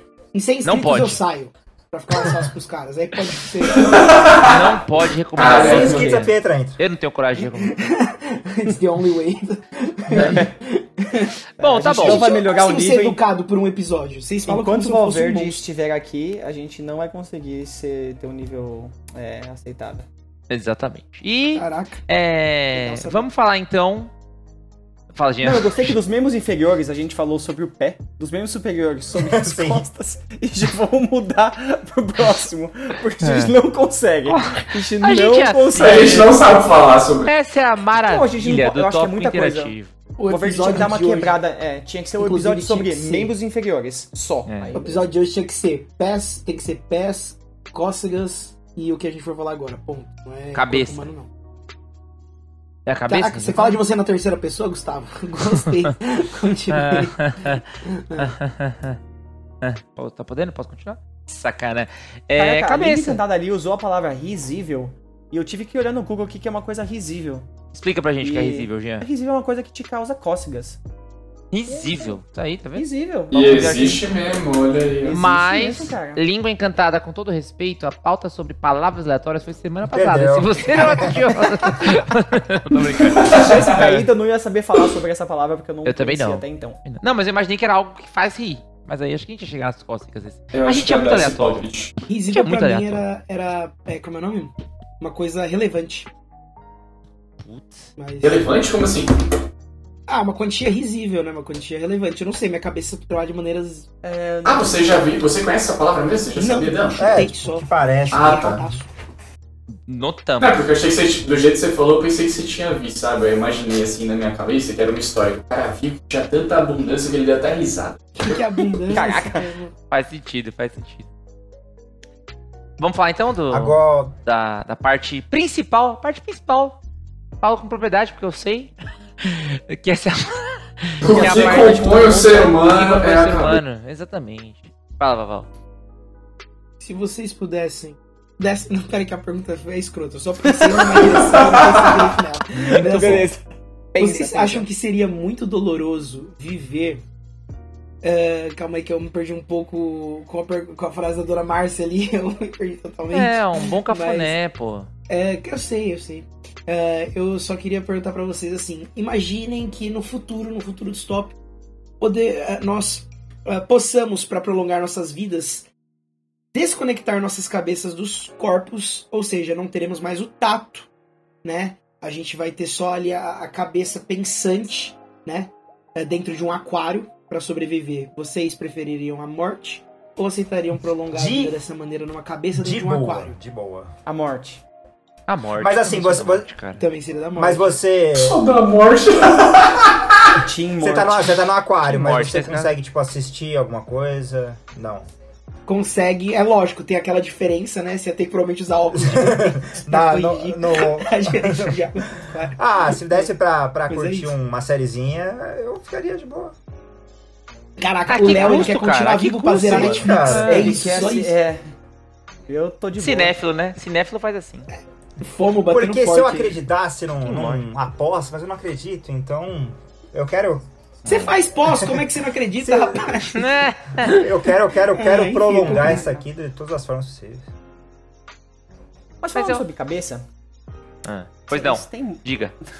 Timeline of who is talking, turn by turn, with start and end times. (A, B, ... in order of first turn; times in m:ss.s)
0:00.3-0:04.4 A
0:00.6-0:01.2 B
0:03.7-0:04.6 C
0:04.4-0:07.7 B
0:05.4-0:06.2 C
0:05.4-0:06.8 D
0:07.4-0:11.4 A
0:10.1-0:10.5 E
0:10.2-0:10.4 B
0:11.6-0:12.3 B
0:11.6-0:13.2 E
0:11.9-0:15.6 A
0:14.4-0:20.1 E
0:20.5-0:24.1 B
0:21.5-0:22.0 A
0:22.7-0:23.3 A
0:25.1-0:26.0 B
0:25.4-0:36.5 E
0:29.2-0:29.8 D
0:33.2-0:33.5 B
0:34.3-0:36.3 B
0:35.7-0:37.3 C
0:37.2-0:39.9 B
0:38.0-0:39.7 E
0:40.2-0:41.4 A
0:40.3-0:45.1 E
0:42.2-0:43.3 A
0:44.5-0:44.8 B
0:44.7-0:51.3 A
0:50.5-0:51.1 B
0:52.8-0:53.8 B
0:53.1-0:58.3 A
0:56.7-0:57.6 B
0:58.2-0:59.0 B
0:59.6-1:03.2 B
1:02.3-1:07.5 E
1:07.7-1:09.1 B
1:08.2-1:10.8 E
1:11.5-1:14.0 B
1:11.7-1:12.1 E
1:12.7-1:13.6 E
1:13.3-1:15.2 C
1:15.0-1:16.2 E
1:15.1-1:24.1 B
1:19.9-1:21.2 D
1:23.2-1:23.8 C
1:23.2-1:26.8 E
1:25.8-1:31.7 B
1:30.5-1:31.9 C
1:32.1-1:36.1 A
1:32.3-1:33.0 B
1:37.4-1:37.9 B
1:38.0-1:38.4 A
1:38.2-1:39.1 C
1:40.1-1:43.9 A
1:44.0-1:44.7 E
1:44.4-1:47.0 C
1:46.4-1:48.8 A
1:47.0-1:48.8 D
1:48.1-1:48.6 C
1:49.8-1:50.6 B
1:50.4-1:58.0 C
1:58.2-1:59.7 A
1:58.9-1:59.5 E
1:59.9-2:01.1 B
2:02.8-2:06.8 B
2:03.5-2:04.1 D
2:07.4-2:15.5 B
2:11.0-2:13.6 C
2:11.2-2:12.5 E
2:16.8-2:23.3 A
2:20.5-2:21.2 E
2:21.3-2:21.7 C
2:22.6-2:23.4 E
2:22.7-2:23.3 B
2:23.9-2:24.6 E
2:24.0-2:27.0 A
2:28.0-2:34.3 A
2:33.1-2:34.9 B
2:35.1-2:41.3 A
2:42.0-2:45.7 A
2:46.5-2:50.9 A
2:51.4-3:03.4 A
3:01.1-3:01.6 D
3:02.6-3:03.9 D
3:04.0-3:04.6 E
3:05.3-3:06.8 B
3:05.6-3:06.5 D
3:06.8-3:07.8 A
3:07.3-3:08.4 D
3:08.2-3:10.3 C
3:10.4-3:11.3 E
3:10.8-3:15.1 D
3:11.9-3:12.7 B
3:15.6-3:23.3 A
3:18.9-3:21.8 D
3:22.5-3:26.5 D
3:23.9-3:24.3 A
3:27.8-3:31.4 A
3:28.1-3:30.8 B
3:29.7-3:30.7 D
3:30.3-3:31.6 E
3:32.5-3:33.3 E
3:33.0-3:34.7 B
3:35.2-3:36.6 A
3:35.7-3:42.0 D
3:37.2-3:37.6 E
3:41.1-3:43.5 A
3:42.6-3:43.2 D
3:43.3-3:44.2 B
3:44.0-3:47.4 D
3:44.9-3:46.0 A
3:45.6-3:46.2 E
3:49.2-3:50.2 E
3:49.3-3:49.6 B
3:51.0-3:52.5 B
3:51.5-3:52.2 E